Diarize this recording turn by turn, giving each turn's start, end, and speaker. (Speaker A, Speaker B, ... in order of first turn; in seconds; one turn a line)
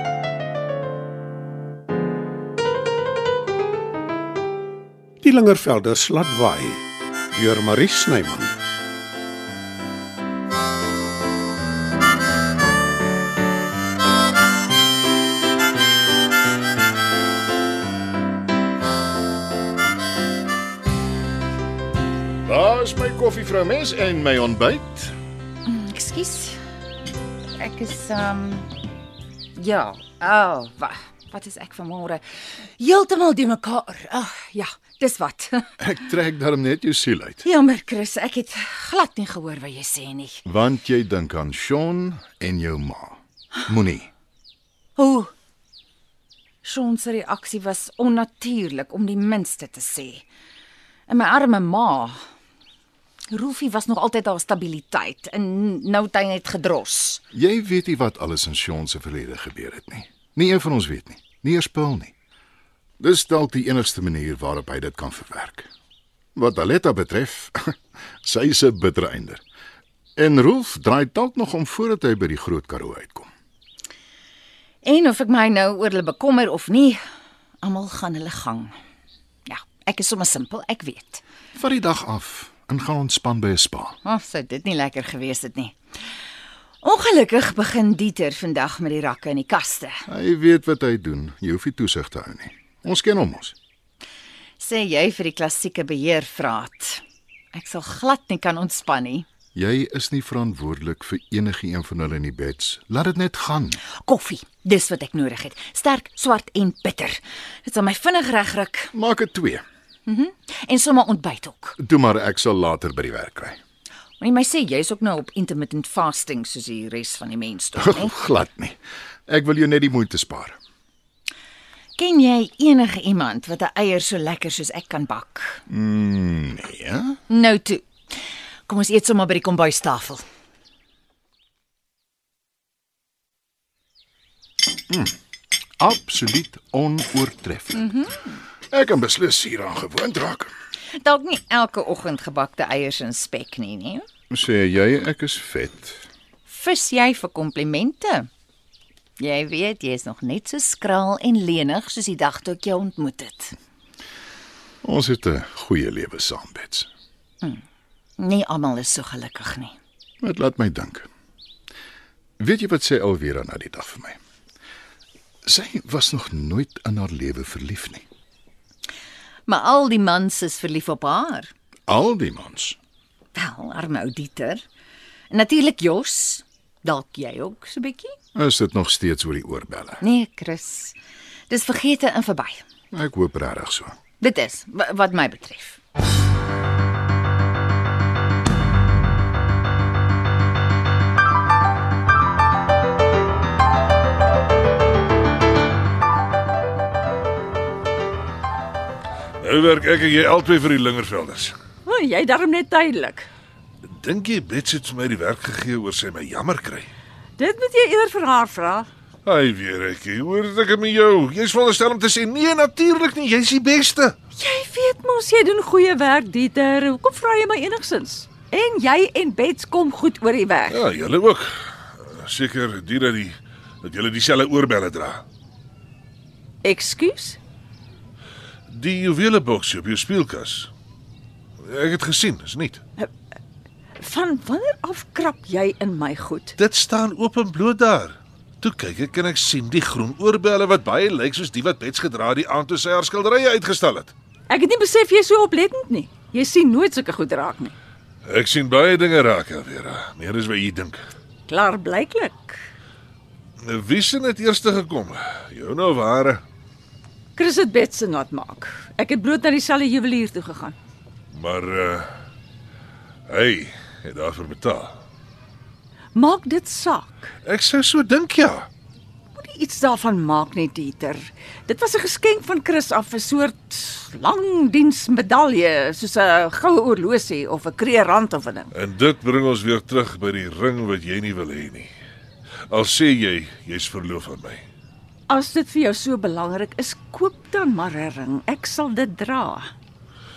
Speaker A: 5.2-8.5
Speaker B: 22.5-25.1
Speaker C: 25.7-26.6
Speaker C: 27.6-28.7
Speaker C: 29.6-35.7
Speaker B: 35.8-37.4
Speaker C: 37.4-40.4
Speaker B: 40.5-44.1
Speaker C: 45.0-45.3
Speaker C: 46.6-50.2
Speaker C: 51.1-52.2
Speaker C: 53.3-57.2
Speaker B: 57.3-62.1
Speaker B: 63.0-65.7
Speaker B: 66.4-69.4
Speaker B: 70.2-73.3
Speaker C: 74.8-77.0
Speaker C: 77.6-78.7
Speaker C: 79.5-81.2
Speaker B: 81.5-84.0
Speaker C: 84.0-85.8
Speaker C: 86.8-90.0
Speaker B: 90.1-93.5
Speaker C: 94.6-97.0
Speaker C: 97.5-99.2
Speaker B: 99.5-103.8
Speaker C: 103.9-108.9
Speaker B: 108.9-109.6
Speaker C: 110.1-111.8
Speaker B: 111.8-113.6
Speaker C: 114.2-118.1
Speaker B: 117.8-120.6
Speaker C: 122.0-125.6
Speaker B: 125.7-127.2
Speaker C: 127.3-127.9
Speaker C: 128.7-130.2
Speaker B: 135.8-137.9
Speaker C: 137.8-138.2
Speaker B: 138.7-140.5
Speaker C: 140.9-144.0
Speaker B: 144.3-146.0
Speaker C: 146.5-148.3
Speaker C: 149.2-153.6
Speaker B: 154.8-156.9
Speaker C: 158.2-159.7
Speaker B: 160.2-161.1
Speaker B: 162.4-164.2
Speaker B: 165.4-168.0
Speaker C: 169.5-171.5
Speaker B: 171.9-172.8
Speaker C: 173.3-174.6
Speaker C: 175.3-178.2
Speaker B: 178.3-180.0
Speaker C: 180.0-180.9
Speaker C: 181.5-182.6
Speaker B: 182.9-183.9
Speaker C: 184.2-185.8
Speaker D: 199.4-201.5
Speaker E: 201.8-203.3
Speaker D: 203.9-206.9
Speaker E: 207.4-208.9
Speaker D: 209.2-214.2
Speaker E: 214.3-220.8
Speaker D: 220.7-225.2
Speaker E: 226.6-227.4
Speaker D: 228.7-230.7
Speaker D: 231.6-232.8
Speaker E: 234.0-236.6
Speaker D: 236.6-244.1
Speaker E: 244.5-247.7
Speaker D: 248.2-251.0
Speaker E: 251.5-252.6
Speaker D: 253.6-256.4
Speaker E: 257.4-260.8
Speaker D: 261.3-262.1
Speaker D: 263.3-264.9
Speaker E: 266.1-267.3
Speaker D: 267.4-268.7
Speaker E: 269.4-278.7
Speaker D: 278.7-281.9
Speaker D: 282.7-284.6
Speaker E: 285.3-289.7